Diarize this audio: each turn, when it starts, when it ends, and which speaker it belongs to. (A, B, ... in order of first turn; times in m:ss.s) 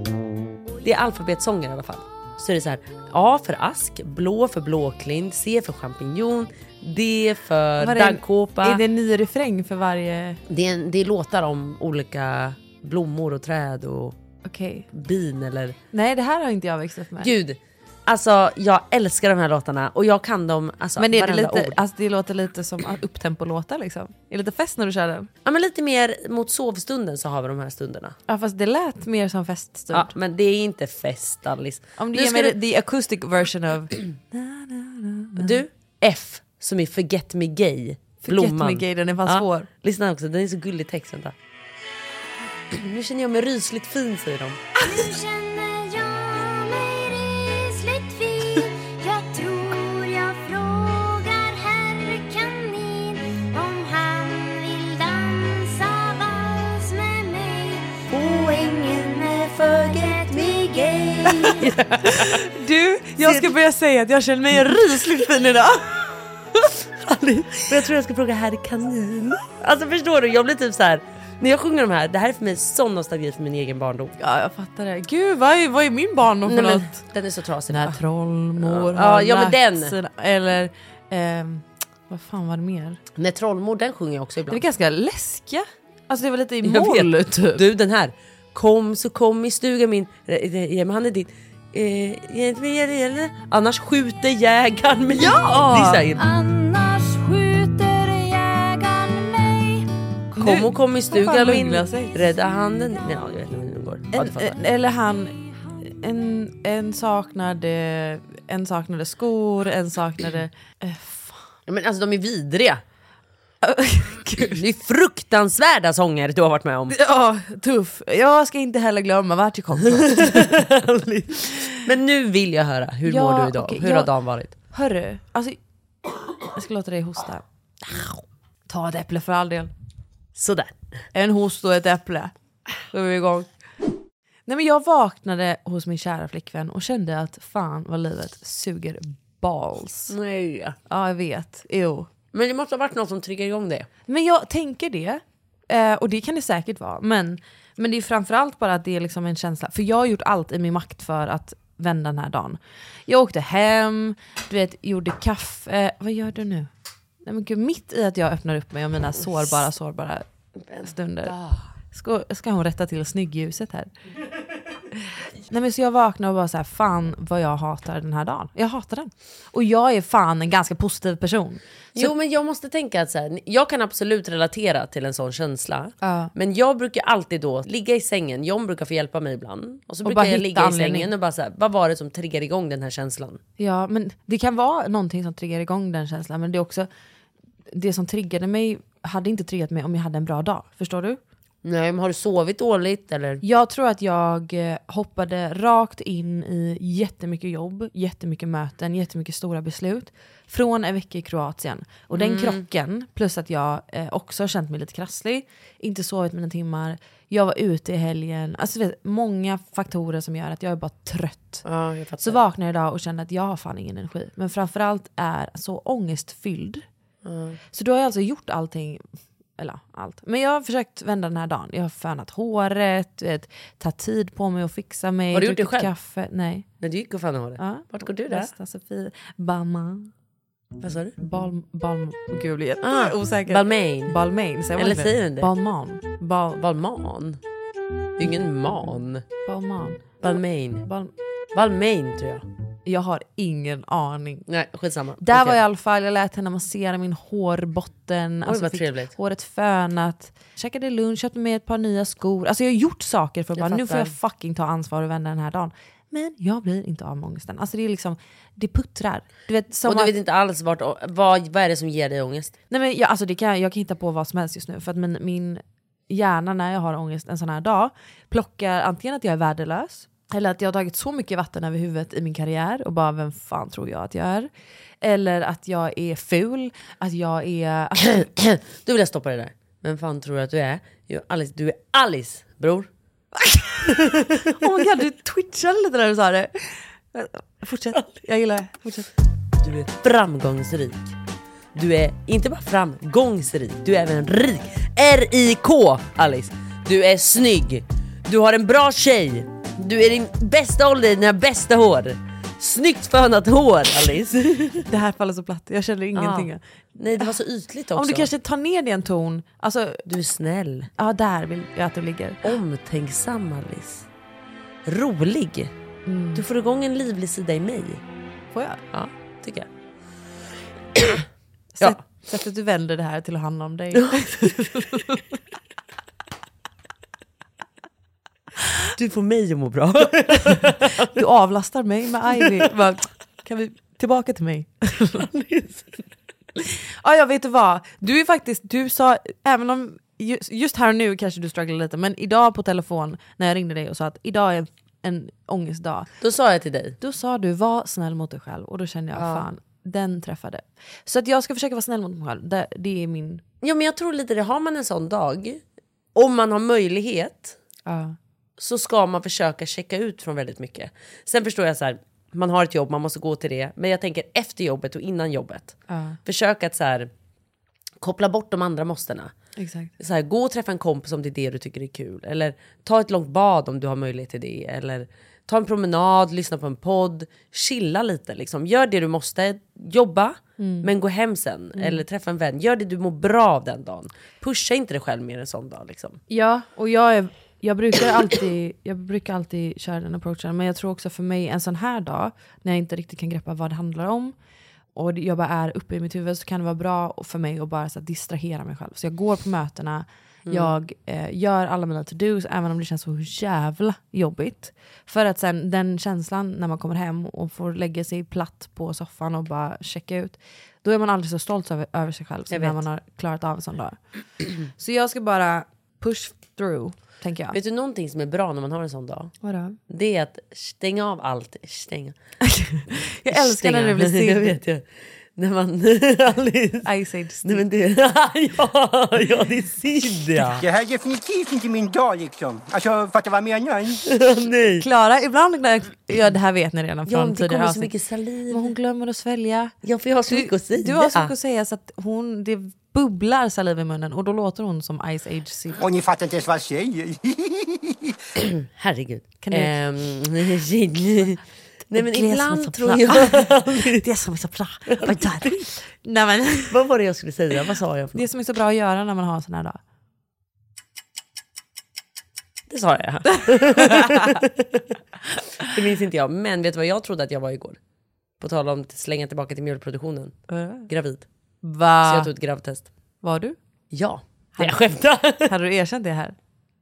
0:00.8-0:08.8 A
0:07.8-0:10.4 B
0:10.5-0:14.2 A
0:14.4-0:14.9 B
0:14.9-0:15.8 A
0:15.9-0:17.3 B
0:17.2-0:21.8 A
0:21.0-0:25.3 B
0:25.4-0:28.2 A
0:28.3-0:30.1 B
0:29.9-0:32.6 A
0:32.0-0:35.6 B
0:35.4-0:41.4 A
0:38.2-0:39.7 B
0:42.7-0:44.6 A
0:44.8-1:01.8 C
0:58.1-1:02.4 A
1:02.0-1:05.9 B
1:03.2-1:03.5 A
1:04.6-1:05.2 A
1:06.8-1:14.2 A
1:14.2-1:17.0 B
1:16.5-1:18.0 A
1:17.7-1:23.0 B
1:18.6-1:20.0 A
1:23.2-1:24.6 A
1:24.5-1:27.6 B
1:26.6-1:36.2 A
1:35.2-1:36.1 B
1:36.2-1:39.9 C
1:40.3-1:42.1 B
1:40.4-1:44.6 A
1:44.1-1:51.5 B
1:51.7-1:52.8 A
1:53.6-1:54.6 B
1:54.4-1:57.0 A
1:56.9-2:00.6 B
2:00.0-2:04.5 A
2:03.1-2:04.1 B
2:04.7-2:05.6 B
2:06.5-2:07.4 B
2:08.7-2:09.7 B
2:10.4-2:10.7 A
2:11.1-2:12.3 B
2:12.9-2:13.5 B
2:14.5-2:20.1 B
2:20.1-2:20.8 A
2:20.9-2:22.1 B
2:22.3-2:23.9 A
2:24.1-2:36.7 B
2:37.2-2:40.3 B
2:40.7-2:41.6 A
2:40.8-2:41.3 B
2:41.9-2:43.9 B
2:45.5-2:52.1 B
2:52.0-3:03.4 A
2:56.0-2:56.3 B
3:00.0-3:01.1 B
3:03.6-3:06.9 B
3:07.7-3:11.2 B
3:11.6-3:13.4 A
3:13.4-3:31.6 B
3:22.1-3:22.6 A
3:31.6-3:32.4 A
3:32.2-3:36.9 B
3:37.2-3:37.6 A
3:37.7-3:39.0 B
3:39.6-3:46.7 B
3:45.3-3:45.9 A
3:46.8-3:48.5 A
3:47.6-3:50.1 B
3:50.8-3:51.1 A
3:51.2-3:56.0 B
3:52.8-3:54.2 A
3:54.8-3:55.5 A
3:56.2-3:57.4 A
3:58.2-3:59.2 A
3:59.4-4:01.1 B
4:00.2-4:00.9 A
4:01.6-4:02.4 A
4:02.9-4:04.4 B
4:04.5-4:05.6 A
4:05.2-4:20.1 B
4:08.4-4:09.1 A
4:13.6-4:14.2 A
4:19.9-4:22.6 A
4:22.7-4:34.5 B
4:35.0-4:38.2 B
4:38.0-4:42.9 A
4:43.4-4:49.1 B
4:43.9-4:44.5 A
4:49.6-4:51.2 A
4:51.8-5:04.9 A
5:04.9-5:06.6 B
5:06.2-5:08.3 A
5:08.0-5:10.0 B
5:10.1-5:10.9 A
5:11.0-5:12.5 B
5:12.4-5:14.1 A
5:14.9-5:15.7 A
5:16.1-5:16.4 B
5:16.4-5:18.0 A
5:18.5-5:18.8 B
5:18.9-5:19.7 A
5:21.0-5:21.2 A
5:21.7-5:25.2 B
5:24.0-5:24.9 A
5:29.0-5:31.1 A
5:30.5-5:35.2 B
5:35.2-5:35.9 A
5:36.6-5:46.1 B
5:46.2-5:47.0 A
5:47.0-5:53.4 B
5:49.2-5:49.5 A
5:53.6-5:55.6 A
5:56.2-5:57.6 A
5:57.9-5:58.2 B
5:58.6-6:07.1 A
6:05.9-6:06.2 B
6:08.0-6:09.3 A
6:09.6-6:09.9 B
6:10.0-6:26.2 A
6:20.6-6:20.9 B
6:21.8-6:22.0 B
6:26.3-6:34.3 B
6:35.0-6:57.6 B
6:40.5-6:40.7 A
6:52.5-6:52.8 A
6:57.5-6:59.4 A
6:59.4-6:59.8 B
6:59.9-7:02.2 A
7:02.4-7:04.6 B
7:03.3-7:06.9 A
7:06.8-7:07.6 B
7:07.4-7:10.6 A
7:10.6-7:14.0 D
7:14.0-7:14.8 A
7:14.8-7:17.9 B
7:17.1-7:18.7 A
7:18.5-7:19.7 B
7:19.8-7:21.3 A
7:20.3-7:25.8 B
7:25.8-7:28.1 D
7:28.4-7:34.0 A
7:29.4-7:29.7 B
7:31.9-7:36.8 B
7:34.9-7:35.6 A
7:36.7-7:38.3 A
7:38.2-7:39.8 B
7:42.7-7:45.0 A
7:43.6-7:44.4 B
7:45.6-7:47.8 A
7:48.4-7:51.3 A
7:50.5-7:50.9 B
7:51.6-7:52.3 B
7:52.0-7:52.9 A
7:53.2-7:53.6 B
7:53.9-7:55.5 A
7:55.5-7:56.4 B